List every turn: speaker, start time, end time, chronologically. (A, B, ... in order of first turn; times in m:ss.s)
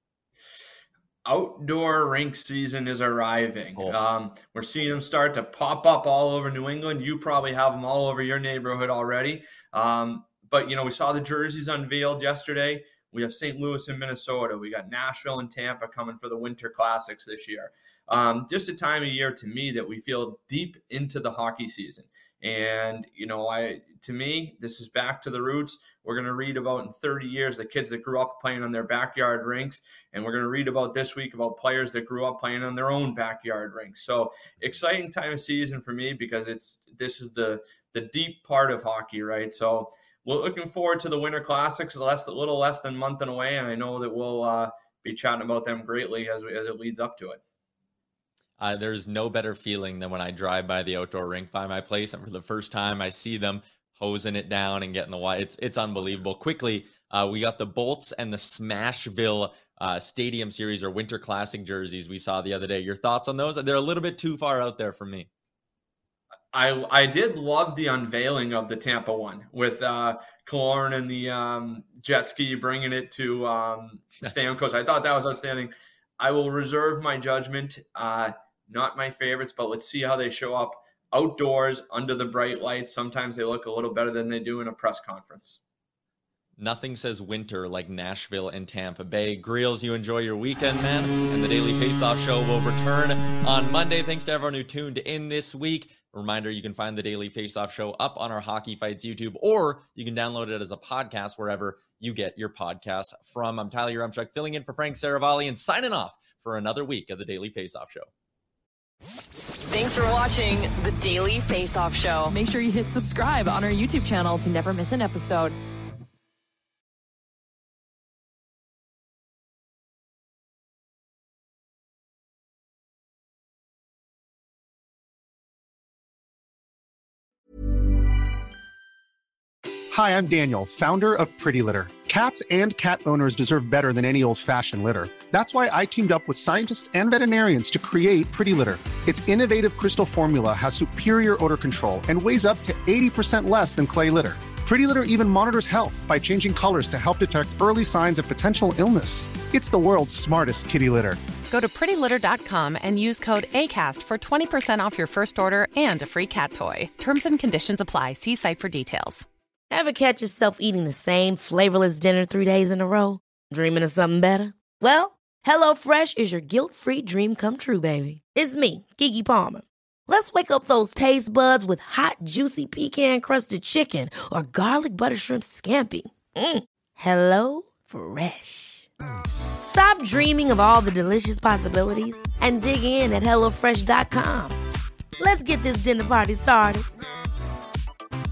0:01.2-0:47.4 A
0:48.6-1:05.3 B
1:06.5-1:25.6 A
1:26.6-1:48.1 B
1:49.7-1:52.3 C
1:52.3-1:55.6 D
2:09.9-2:31.2 E
2:31.5-2:39.2 F
2:39.7-2:58.9 G
2:59.6-3:04.6 G
3:05.2-3:06.8 G